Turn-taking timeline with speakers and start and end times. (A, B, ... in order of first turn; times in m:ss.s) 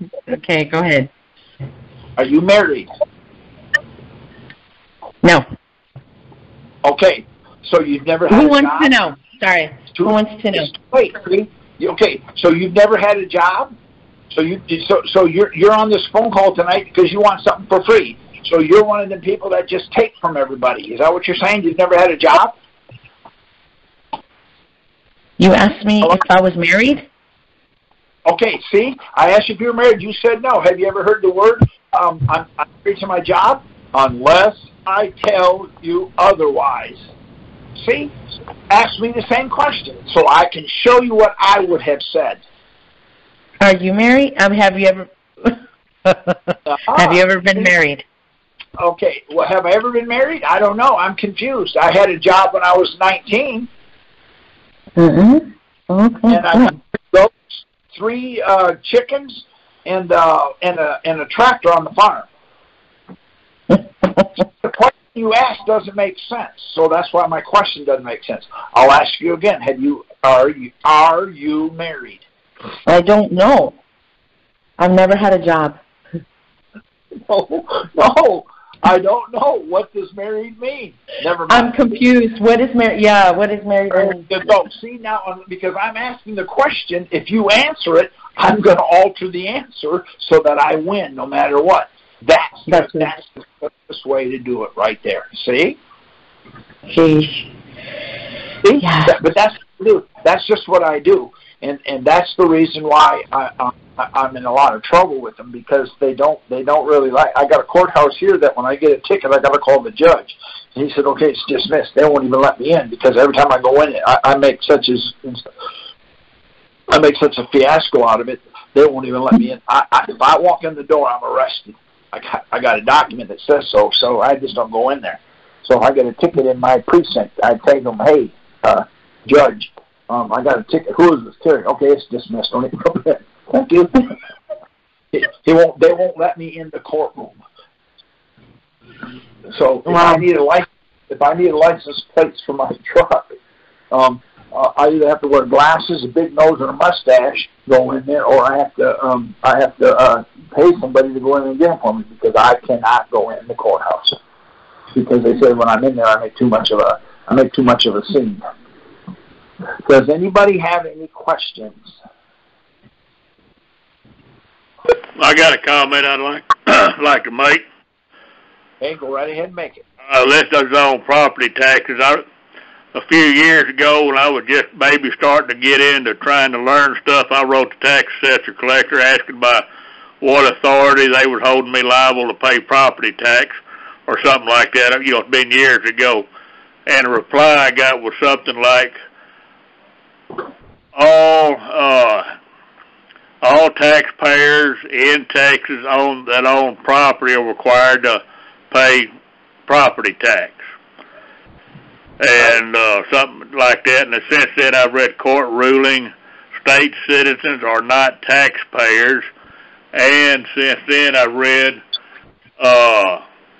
0:00.3-0:01.1 A
0:02.2-0:02.9 B
0:06.8-0:08.9 B
0:08.3-0:10.7 A
0:09.9-0:13.7 B
0:14.3-0:22.6 B
0:25.4-0:27.0 A
0:28.2-0:37.1 B
0:37.8-0:38.1 B
0:38.7-0:42.4 B
0:43.6-0:48.0 A
0:46.6-0:47.7 B
0:48.8-0:53.7 B
0:55.0-0:56.7 A
0:56.3-1:02.3 B
1:03.7-1:04.2 A
1:04.6-1:12.2 B
1:12.8-1:13.8 A
1:14.8-1:15.8 A
1:17.3-1:21.7 B
1:21.5-1:24.2 A
1:23.9-1:35.8 B
1:32.7-1:33.1 A
1:36.9-1:37.5 A
1:38.6-1:55.4 B
1:38.8-1:39.2 A
1:56.9-2:14.1 B
2:15.1-2:17.4 B
2:19.5-2:23.4 B
2:19.8-2:20.2 A
2:23.9-2:34.2 B
2:34.9-2:38.4 B
2:39.8-2:41.9 B
2:45.2-2:47.6 C
2:48.8-2:49.8 B
2:50.1-2:52.2 C
2:52.9-2:59.6 C
3:00.2-3:06.2 C
3:06.8-3:09.0 C
3:10.9-3:12.3 C
3:13.4-3:19.1 C
3:19.7-3:20.6 C
3:22.2-3:29.2 C
3:29.9-3:31.8 C
3:32.6-3:33.2 C